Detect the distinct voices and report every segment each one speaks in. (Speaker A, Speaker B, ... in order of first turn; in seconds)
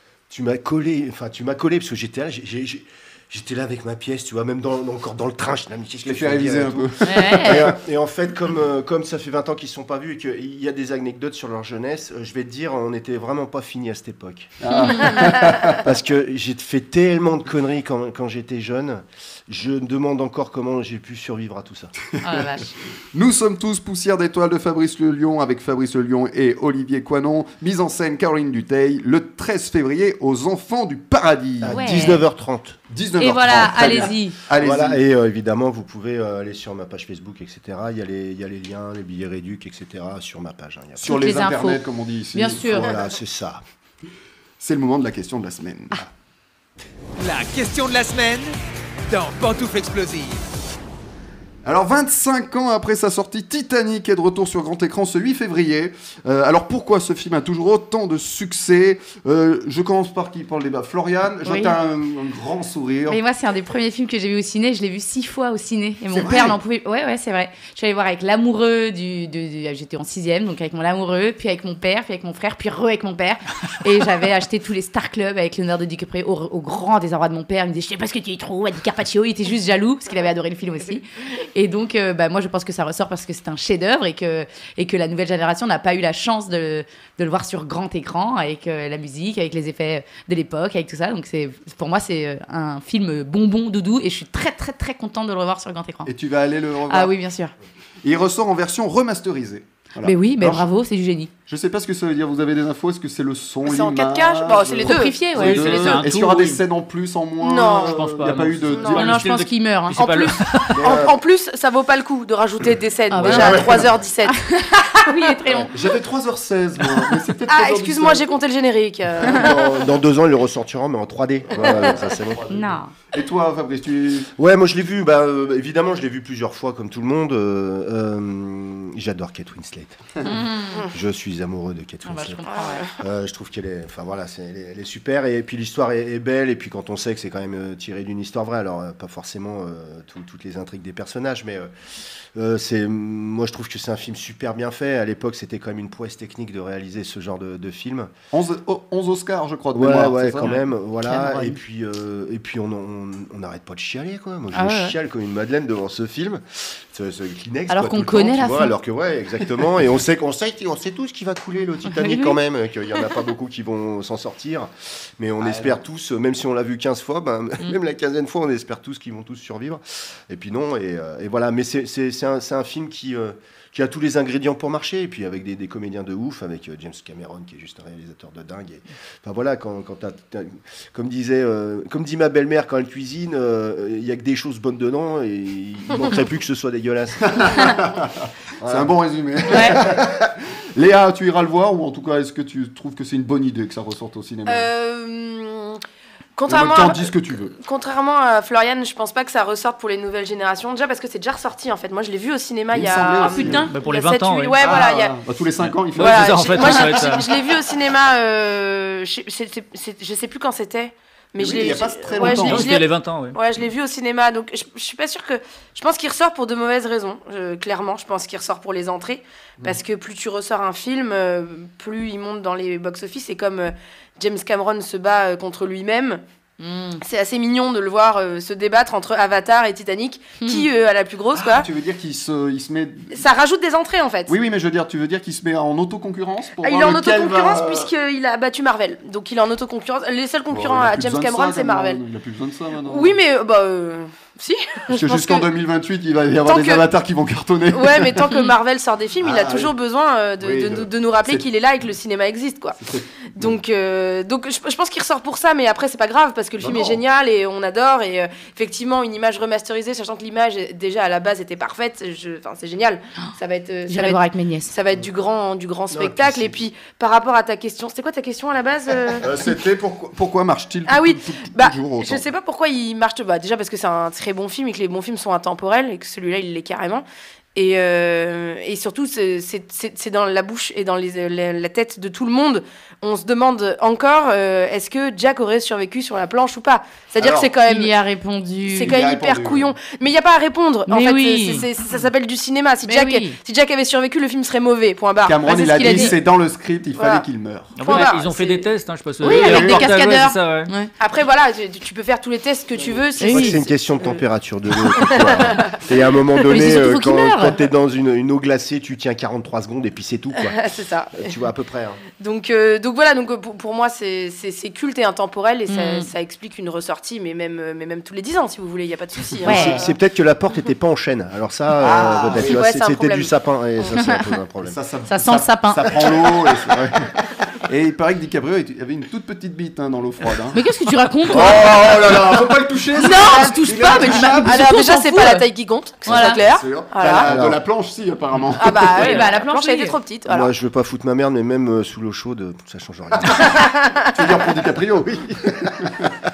Speaker A: 0.3-14.6, 15.7-21.9, 31.6-32.8, 34.6-41.3, 42.7-43.6, 110.8-111.2, 113.2-114.0, 119.2-122.4, 124.4-130.0, 130.9-132.4, 133.0-141.7, 142.3-148.1, 149.7-187.9, 188.6-188.9, 189.5-190.1, 265.9-266.6, 303.2-310.6, 311.1-312.0, 319.4-324.8, 337.2-337.6, 340.3-343.5
Speaker B: 6.0-7.8, 14.6-15.8, 22.1-22.4, 23.1-32.1, 32.9-35.0, 41.0-43.0, 44.6-46.1, 51.6-63.2, 66.1-66.6, 96.0-97.2, 98.0-100.7, 101.5-109.2, 113.3-113.6, 115.7-118.3, 121.6-124.3, 148.3-150.5, 187.2-194.7, 196.5-197.5, 202.7-203.7, 204.6-207.2, 211.4-212.8, 231.3-233.2, 234.3-237.9, 240.5-243.2, 244.9-248.3, 249.2-249.7, 250.4-251.5, 252.8-253.6, 256.6-257.0, 269.2-272.2, 287.2-287.5, 288.8-289.7, 295.2-298.0, 299.2-299.9, 321.8-322.6, 324.6-327.1, 327.6-330.6, 331.2-334.8, 336.1-339.2, 344.0-346.1
Speaker C: 7.0-7.7, 14.8-15.2, 22.2-22.7, 31.6-32.2, 33.2-34.4, 41.0-42.9, 61.4-61.8, 63.1-96.1, 96.9-97.5, 100.0-101.3, 104.8-106.0, 108.9-111.0, 113.1-113.7, 114.3-115.7, 122.5-122.9, 130.2-130.9, 132.0-132.9, 151.1-151.5, 154.5-154.9, 157.7-158.7, 161.9-162.4, 189.5-189.8, 203.3-204.0, 226.6-227.0, 230.4-230.7, 263.9-264.7, 287.6-289.0, 290.9-291.7, 292.8-293.4, 295.4-296.2, 299.2-300.9, 303.2-303.6, 306.5-307.5, 315.7-316.1, 319.4-319.8, 325.1-326.1, 330.5-331.8, 332.9-335.5, 336.0-336.4, 338.9-339.9
Speaker D: 47.1-48.5, 49.1-50.4
Speaker E: 103.6-105.2, 107.4-109.0, 110.0-114.3, 117.5-119.6, 132.5-132.8, 194.4-195.8, 196.4-205.2, 205.9-226.2, 227.0-231.7, 233.1-234.3, 236.6-242.0, 242.8-245.5, 246.4-246.8, 247.7-252.8, 253.3-269.3, 270.9-287.9, 288.7-296.1, 296.9-297.2, 297.8-298.7, 301.0-304.2, 305.0-305.7, 310.4-311.3, 312.2-319.9, 322.3-323.3, 334.4-337.3, 338.5-340.5, 343.4-344.0
Speaker F: 105.3-106.6, 107.8-110.7, 203.7-204.6, 205.6-207.3, 212.2-213.4, 297.8-300.7